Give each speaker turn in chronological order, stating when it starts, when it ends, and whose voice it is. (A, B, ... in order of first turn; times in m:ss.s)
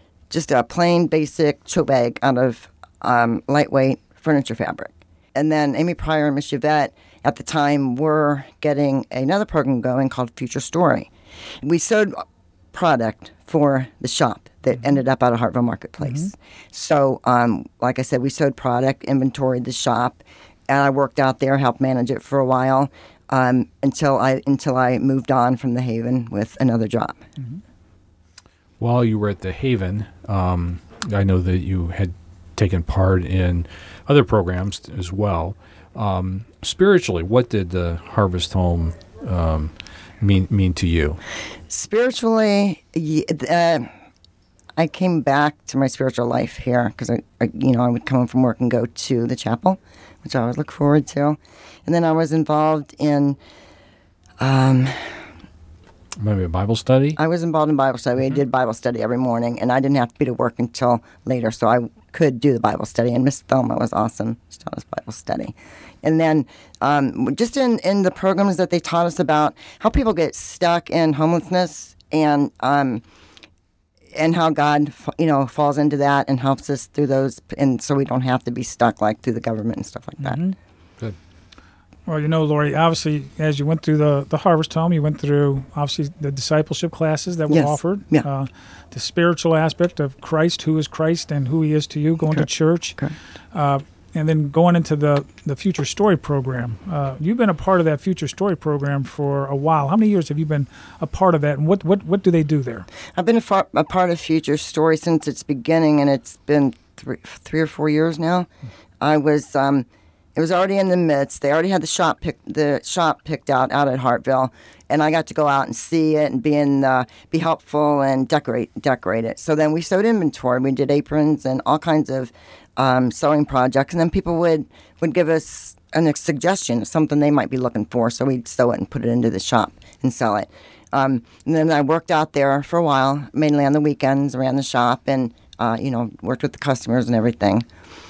0:00.3-0:11.1 A
0:11.6-0:27.2 A
0:16.0-0:16.3 B
0:28.8-0:41.2 C
0:41.7-0:43.9 A
0:44.8-0:53.4 A
0:54.4-0:55.2 A
0:56.2-0:57.2 C
0:57.2-1:13.0 A
1:14.1-1:20.4 A
1:20.2-1:20.6 B
1:22.1-1:33.0 B
1:27.5-1:28.2 A
1:32.3-1:33.2 A
1:33.5-1:42.9 B
1:43.1-1:48.5 A
1:49.0-2:17.6 A